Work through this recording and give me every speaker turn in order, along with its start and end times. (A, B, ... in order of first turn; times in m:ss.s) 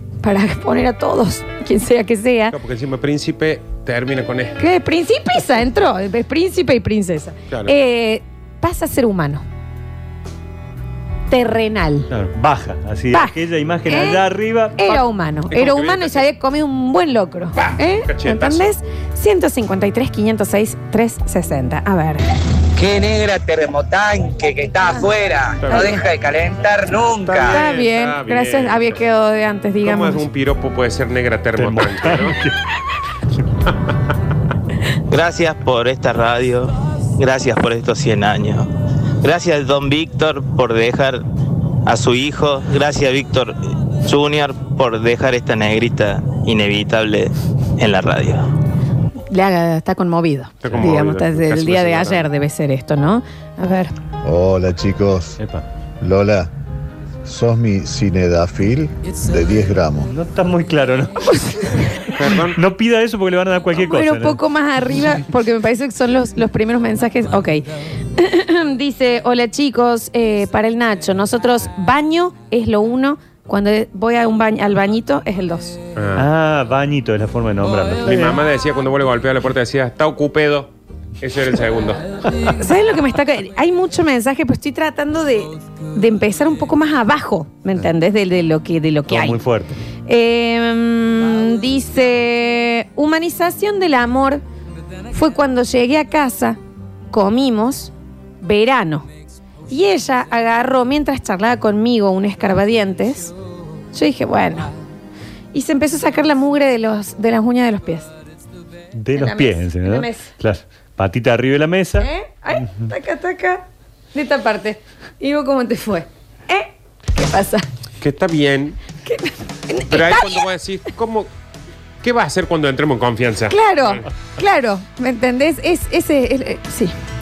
0:00.2-0:02.6 A
0:02.5-0:04.6 B
0:04.6-0:09.4 A
0:11.3-0:12.1 A
0:12.1-0:15.0 C
0:13.1-0:14.2 A
0:14.8-0:22.3 A
0:15.5-0:16.2 B
0:17.6-0:18.7 B
0:22.8-0:27.6 D
0:25.6-0:26.0 B
0:25.7-0:26.0 A
0:27.2-0:29.0 B
0:27.4-0:30.2 A
0:29.8-0:32.4 B
0:31.6-0:32.6 C
0:35.1-0:38.7 E
0:39.2-0:41.2 E
0:41.9-0:48.5 E
0:49.3-0:53.9 A
0:50.6-0:52.2 B
0:54.2-0:55.4 F
0:55.4-0:55.6 C
0:56.0-0:56.5 F
0:57.2-1:00.1 F
1:00.1-1:01.2 C
1:01.2-1:02.0 A
1:02.2-1:02.6 B
1:02.2-1:04.4 C
1:03.7-1:07.6 A
1:08.2-1:15.8 A
1:16.0-1:16.3 B
1:16.2-1:18.4 C
1:18.0-1:22.0 B
1:22.5-1:29.4 A
1:29.1-1:29.8 C
1:30.1-1:34.4 A
1:35.1-1:36.6 A
1:37.1-1:39.1 A
1:39.7-1:43.3 A
1:43.9-1:44.7 A
1:45.5-1:48.1 A
1:49.0-1:52.1 C
1:49.2-1:50.3 A
1:52.0-1:57.7 A
1:58.0-1:58.8 B
1:59.0-2:00.4 A
1:59.9-2:01.3 B
2:02.0-2:04.0 B
2:03.5-2:06.9 A